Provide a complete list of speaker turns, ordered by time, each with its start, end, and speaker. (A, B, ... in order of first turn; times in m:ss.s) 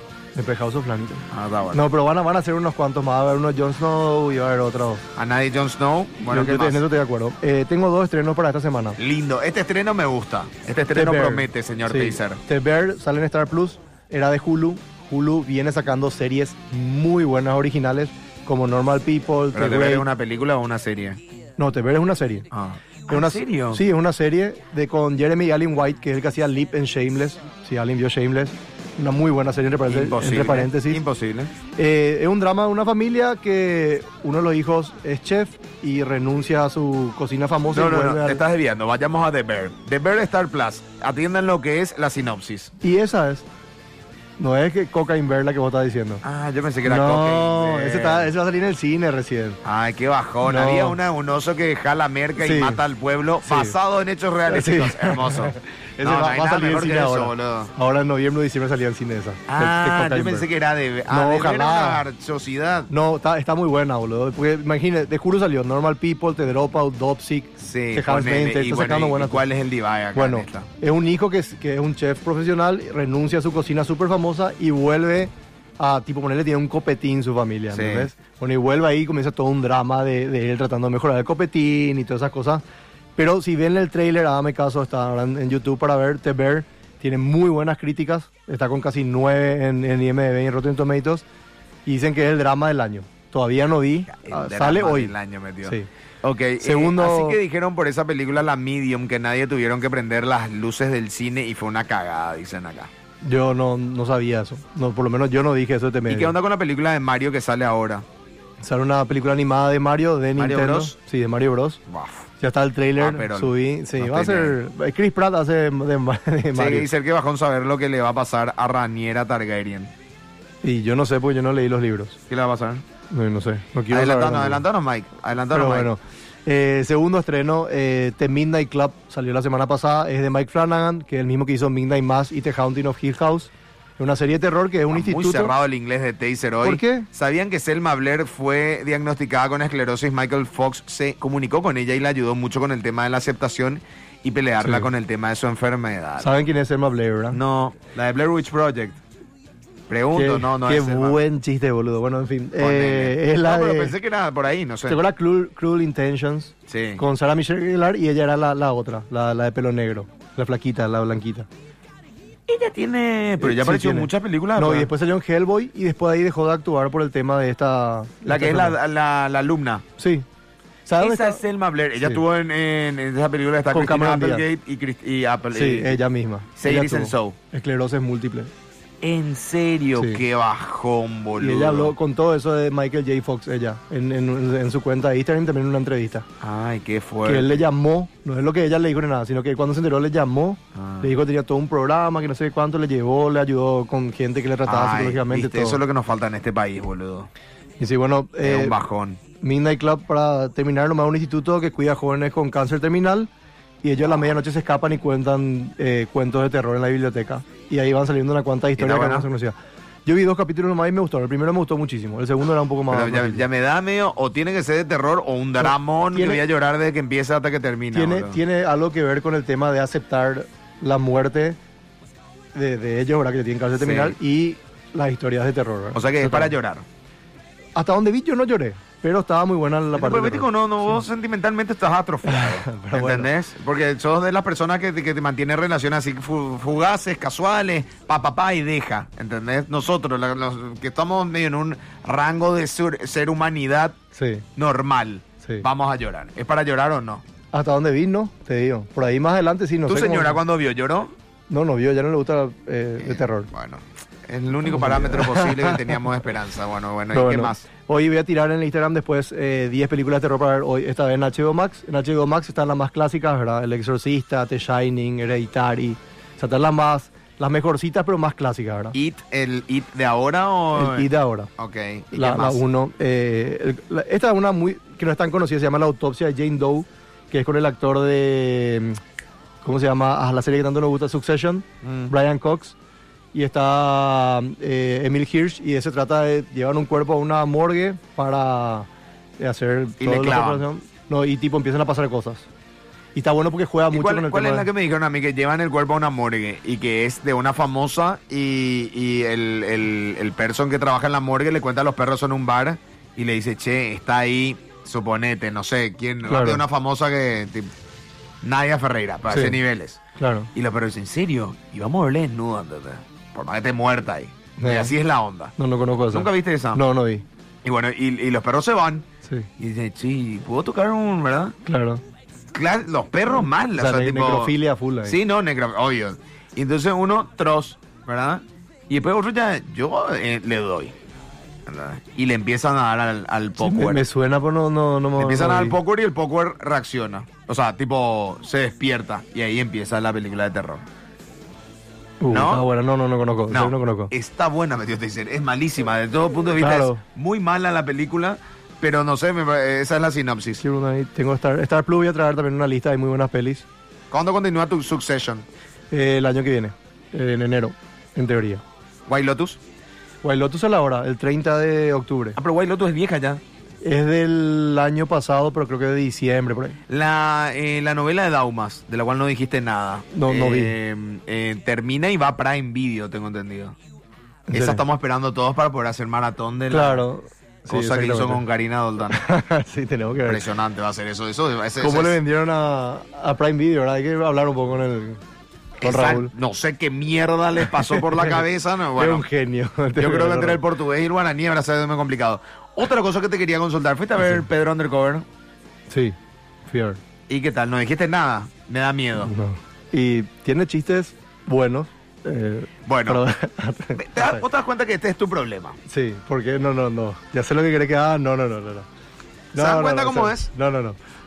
0:00.4-0:05.0 A
0:01.3-0:01.8 B
0:05.2-0:06.8 B
0:06.3-0:09.0 A
0:09.0-0:12.4 B
0:10.9-0:20.1 A
0:19.5-0:21.2 B
0:21.6-0:22.5 A
0:22.5-0:23.8 B
0:23.1-0:31.0 A
0:29.9-0:31.5 B
0:31.7-0:38.4 A
0:37.7-0:42.7 B
0:42.8-0:43.4 A
0:44.4-0:46.2 A
0:46.2-0:48.3 B
0:46.8-0:49.6 A
0:49.6-0:57.7 B
0:50.4-0:51.0 A
0:52.4-0:52.8 A
0:53.4-0:53.8 A
0:54.5-1:00.5 A
0:59.5-1:02.9 B
1:01.1-1:02.0 A
1:02.9-1:09.5 A
1:07.6-1:10.7 B
1:10.1-1:22.6 A
1:17.7-1:18.1 B
1:23.2-1:31.2 A
1:31.8-1:35.1 A
1:34.1-1:42.9 B
1:36.6-1:37.4 A
1:43.2-1:46.3 A
1:46.1-1:48.0 B
1:48.6-1:51.8 A
1:50.4-1:51.0 B
1:51.9-1:52.3 B
1:52.4-1:56.9 A
1:53.0-1:54.6 B
1:56.5-1:59.9 B
2:00.6-2:02.2 A
2:02.3-2:02.8 B
2:03.1-2:04.6 A
2:03.9-2:05.9 B
2:05.5-2:15.5 A
2:14.9-2:26.3 B
2:16.6-2:17.1 A
2:24.6-2:24.9 A
2:26.2-2:27.4 A
2:27.3-2:29.0 B
2:29.9-2:31.2 B
2:30.1-2:34.0 A
2:32.6-2:35.0 B
2:34.9-2:41.5 A
2:36.7-2:37.0 B
2:42.5-2:44.9 B
2:43.4-2:48.8 A
2:48.3-2:49.8 B
2:50.0-2:50.2 A
2:50.9-2:51.4 A
2:51.0-2:56.0 B
2:53.7-2:54.5 A
2:55.5-2:58.5 A
2:56.6-2:57.4 B
2:59.0-3:01.9 B
3:00.0-3:00.2 A
3:01.4-3:06.2 A
3:06.4-3:07.6 B
3:07.2-3:15.8 A
3:10.7-3:11.1 B
3:14.6-3:17.3 B
3:17.8-3:18.8 A
3:18.4-3:19.2 B
3:19.4-3:23.3 A
3:23.8-3:29.5 A
3:28.8-3:29.3 B
3:30.0-3:33.5 A
3:32.9-3:38.4 B
3:35.6-3:36.4 A
3:37.9-3:41.6 A
3:42.5-3:46.5 A
3:43.8-3:44.2 B
3:45.9-3:46.8 B
3:47.8-3:50.5 A
3:49.9-4:04.0 B
3:52.2-3:53.3 A
4:04.2-4:04.4 A
4:04.6-4:07.2 B
4:07.5-4:10.4 A
4:09.9-4:11.1 B
4:11.5-4:13.5 A
4:13.0-4:17.7 B
4:14.6-4:16.0 A
4:17.1-4:28.9 A
4:28.9-4:32.6 B
4:30.7-4:31.5 A
4:32.1-4:39.0 A
4:39.6-4:42.7 A
4:41.8-4:42.1 B
4:43.3-4:48.9 A
4:49.4-4:52.4 A
4:50.0-4:50.6 B
4:53.1-4:54.7 A
4:53.9-5:07.7 B
5:06.2-5:06.6 A
5:08.4-5:10.0 B
5:09.3-5:09.6 A
5:10.2-5:10.5 A
5:10.5-5:15.5 B
5:14.6-5:14.9 A
5:15.6-5:17.2 A
5:16.1-5:16.8 B
5:17.6-5:19.0 B
5:19.6-5:21.5 B
5:21.6-5:22.0 A
5:22.5-5:30.9 B
5:23.4-5:25.2 A
5:31.6-5:34.0 B
5:33.6-5:35.8 A
5:35.2-5:40.8 B
5:42.2-5:44.1 A
5:42.3-5:42.7 B
5:43.5-5:50.6 B
5:46.6-5:47.0 A
5:50.6-5:53.6 A
5:54.1-5:55.4 B
5:55.9-5:58.6 A
5:59.1-5:59.6 B
6:00.2-6:02.4 A
6:02.3-6:03.4 B
6:03.8-6:06.8 A
6:06.9-6:13.8 B
6:10.1-6:10.8 A
6:14.5-6:14.8 A
6:14.5-6:17.0 B
6:16.7-6:18.4 A
6:17.7-6:19.2 B
6:19.1-6:20.4 A
6:20.2-6:22.2 B
6:21.8-6:25.2 A
6:25.8-6:29.2 B
6:25.8-6:26.3 A
6:27.6-6:30.6 A
6:30.0-6:35.2 B
6:34.2-6:34.4 A
6:35.9-6:36.1 A
6:36.7-6:37.0 A
6:37.3-6:39.3 B
6:39.2-6:44.4 A
6:42.8-6:43.2 B
6:43.9-6:45.8 B
6:45.9-6:48.9 A
6:49.5-6:51.0 A
6:49.6-6:50.5 B